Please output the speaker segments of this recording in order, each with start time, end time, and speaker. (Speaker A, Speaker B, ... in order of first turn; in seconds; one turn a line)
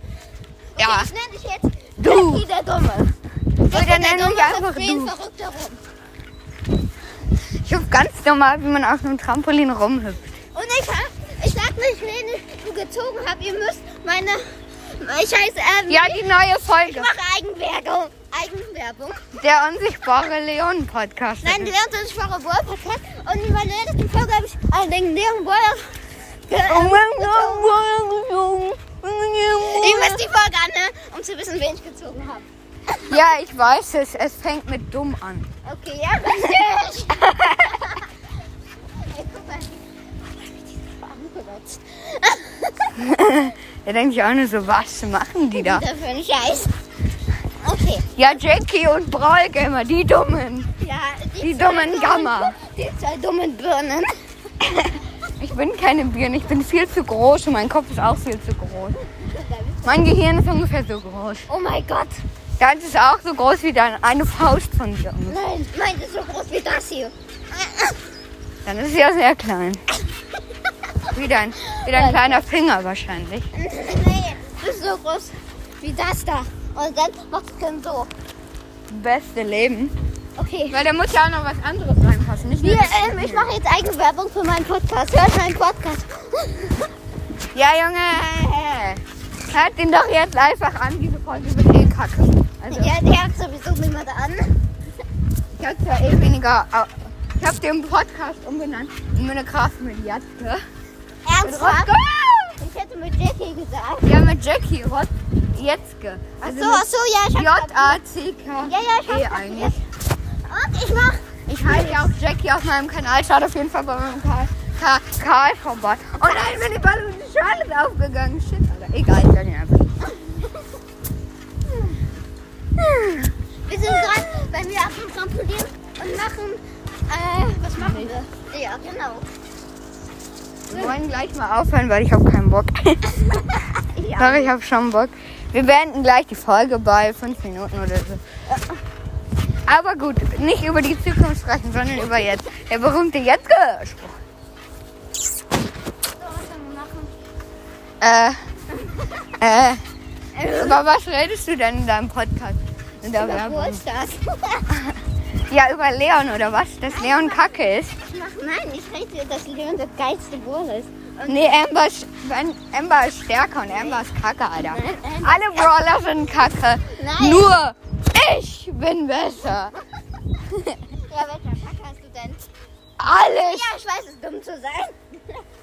Speaker A: 0.8-3.1
Speaker B: 0.8-1.1
Speaker B: 2.0-2.4
Speaker B: 3.6-5.1
Speaker A: 3.6-5.8
Speaker B: 7.6-10.3
Speaker A: 10.5-19.2
Speaker B: 15.9-17.1
Speaker B: 19.4-21.7
Speaker A: 21.4-25.9
Speaker A: 26.5-27.8
Speaker B: 26.7-30.2
Speaker A: 29.6-33.2
Speaker B: 33.0-35.5
Speaker A: 35.6-38.1
Speaker B: 37.1-37.9
Speaker A: 38.8-43.0
Speaker B: 43.0-45.9
Speaker A: 45.5-46.7
Speaker A: 47.6-48.2
Speaker B: 48.1-50.7
Speaker A: 50.8-54.1
Speaker B: 51.4-52.6
Speaker B: 54.6-59.0
Speaker A: 59.1-60.1
Speaker B: 59.9-61.5
Speaker A: 61.5-62.2
Speaker B: 62.6-65.4
Speaker A: 65.3-68.0
Speaker B: 68.7-69.8
Speaker B: 71.1-73.5
Speaker A: 71.8-72.5
Speaker A: 73.5-78.1
Speaker B: 78.9-79.9
Speaker A: 80.4-80.8
Speaker B: 80.7-83.5
Speaker A: 82.6-86.9
Speaker B: 87.5-92.9
Speaker A: 92.7-94.6
Speaker B: 95.6-100.6
Speaker A: 101.2-101.9
Speaker B: 101.4-102.6
Speaker A: 102.6-104.2
Speaker B: 104.0-109.8
Speaker A: 106.4-108.0
Speaker A: 108.6-109.8
Speaker A: 110.5-112.1
Speaker B: 111.5-119.9
Speaker A: 120.2-120.5
Speaker B: 122.8-123.3
Speaker A: 123.7-129.3
Speaker B: 127.8-128.1
Speaker B: 130.7-133.5
Speaker A: 130.7-131.0
Speaker A: 133.9-134.5
Speaker B: 134.2-138.2
Speaker B: 139.7-144.2
Speaker A: 146.2-147.1
Speaker B: 148.0-148.4
Speaker B: 149.4-149.8
Speaker A: 150.4-150.8
Speaker B: 150.4-153.8
Speaker A: 153.1-154.7
Speaker B: 154.7-157.9
Speaker A: 156.9-161.6
Speaker B: 161.3-169.8
Speaker A: 163.7-164.1
Speaker A: 164.6-165.7
Speaker A: 166.9-167.6
Speaker B: 170.5-170.8
Speaker A: 170.9-172.5
Speaker B: 173.0-173.7
Speaker A: 173.3-175.4